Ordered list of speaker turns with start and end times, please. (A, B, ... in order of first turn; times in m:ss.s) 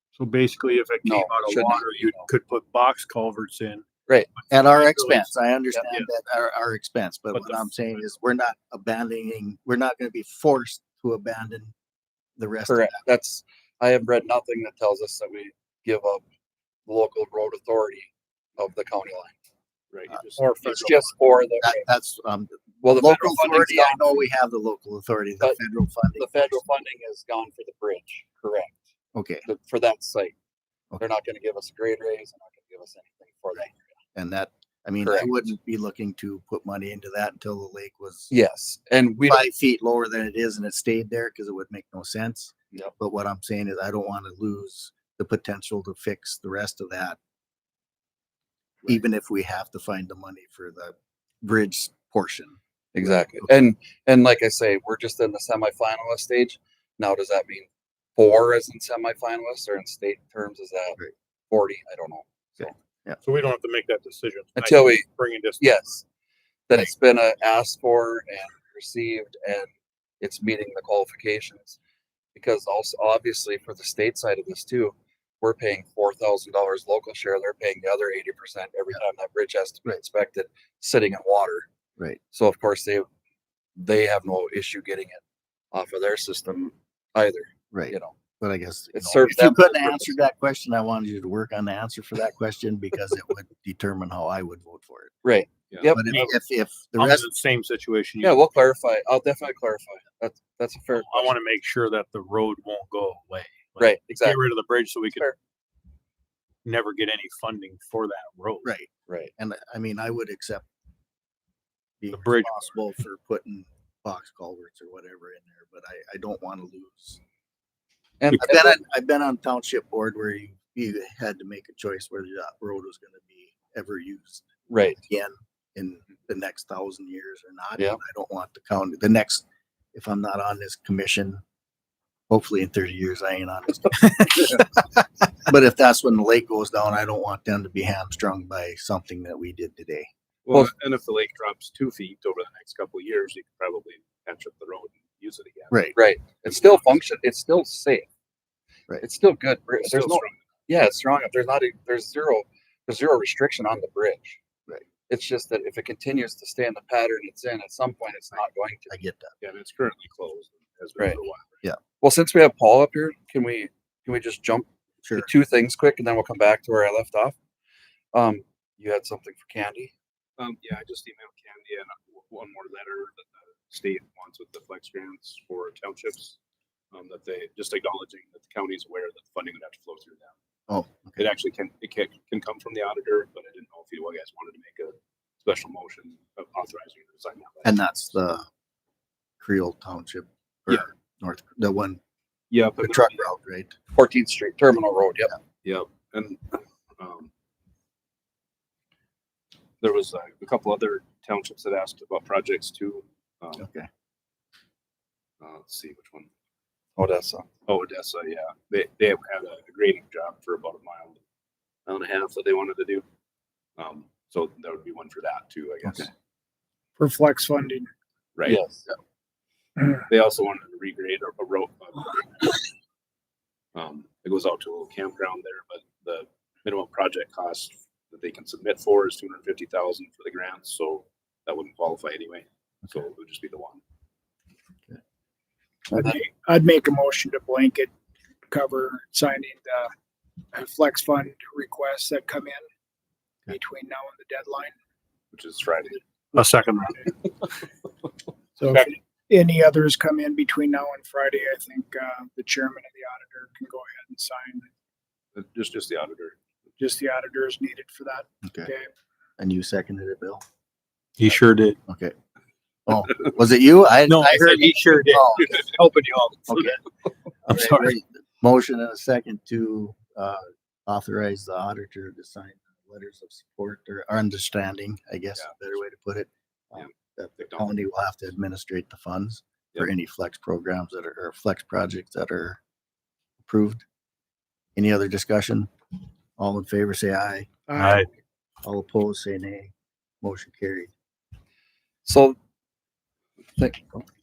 0:00.2-0:03.8 A
0:01.0-0:02.2 B
0:04.5-0:05.3 A
0:04.5-0:11.7 C
0:07.3-0:07.7 A
0:12.4-0:13.0 C
0:12.7-0:16.2 B
0:16.9-0:19.3 B
0:19.9-0:20.6 D
0:20.4-0:21.5 A
0:20.6-0:21.8 B
0:21.6-0:26.8 C
0:22.8-0:24.0 B
0:26.2-0:28.8 B
0:29.2-0:29.5 C
0:29.4-0:30.3 B
0:31.0-0:33.8 B
0:34.2-0:38.3 C
0:35.0-0:35.4 B
0:38.3-0:39.5 B
0:39.3-0:47.2 C
0:48.9-0:53.5 C
0:52.9-1:01.0 B
1:01.5-1:02.8 B
1:02.6-1:03.2 C
1:03.2-1:05.8 A
1:04.6-1:05.1 B
1:05.6-1:06.0 B
1:06.7-1:09.7 B
1:10.2-1:11.8 B
1:12.4-1:21.7 B
1:22.3-1:23.1 B
1:23.8-1:25.2 B
1:25.7-1:28.2 B
1:27.7-1:35.2 C
1:29.0-1:30.2 B
1:35.2-1:36.0 B
1:35.9-1:37.3 C
1:36.1-1:38.4 A
1:38.2-1:41.3 B
1:40.9-1:45.3 A
1:43.8-1:44.4 B
1:46.6-1:48.7 A
1:48.6-1:50.7 C
1:52.0-1:57.2 C
1:52.1-1:52.7 A
1:58.2-1:58.8 B
1:58.4-2:04.5 C
2:04.7-2:05.0 B
2:05.0-2:11.4 C
2:12.3-2:20.1 C
2:20.4-2:26.7 D
2:25.7-2:26.0 C
2:26.0-2:28.1 B
2:29.0-2:34.4 B
2:29.8-2:30.4 D
2:35.1-2:39.0 B
2:38.9-2:39.3 C
2:39.4-2:41.5 D
2:42.0-2:47.4 B
2:48.1-2:49.9 B
2:50.4-2:56.4 D
2:56.9-3:00.4 D
3:00.7-3:01.2 C
3:01.2-3:07.7 D
3:07.6-3:08.5 C
3:09.4-3:12.0 C
3:12.5-3:13.2 D
3:12.8-3:13.8 C
3:13.9-3:15.4 B
3:15.6-3:17.3 D
3:19.8-3:23.7 D
3:23.6-3:23.9 C
3:25.4-3:26.3 D
3:27.0-3:27.5 B
3:27.7-3:31.2 D
3:31.9-3:33.0 D
3:33.8-3:36.1 D
3:37.0-3:37.9 E
3:38.4-3:38.6 D
3:38.4-3:38.9 B
3:40.1-3:42.6 D
3:43.8-3:53.8 D
3:55.9-3:56.2 B
3:55.9-3:57.9 E
3:58.5-3:59.9 E
4:00.5-4:02.6 E
4:03.5-4:04.7 E
4:05.3-4:06.0 D
4:06.3-4:07.0 A
4:08.6-4:14.7 E
4:15.4-4:16.4 D
4:16.8-4:18.9 E
4:18.4-4:18.7 C
4:19.4-4:20.4 C
4:21.2-4:21.8 A
4:21.3-4:22.2 C
4:22.9-4:25.7 C
4:24.1-4:26.8 A
4:26.5-4:26.8 C
4:27.5-4:42.6 C
4:27.5-4:28.0 A
4:36.8-4:37.7 D
4:43.4-4:43.8 C
4:44.8-4:45.7 C
4:46.4-4:47.6 C
4:47.7-4:48.1 A
4:48.6-4:50.9 C
4:52.0-4:52.4 B
4:53.6-4:54.0 B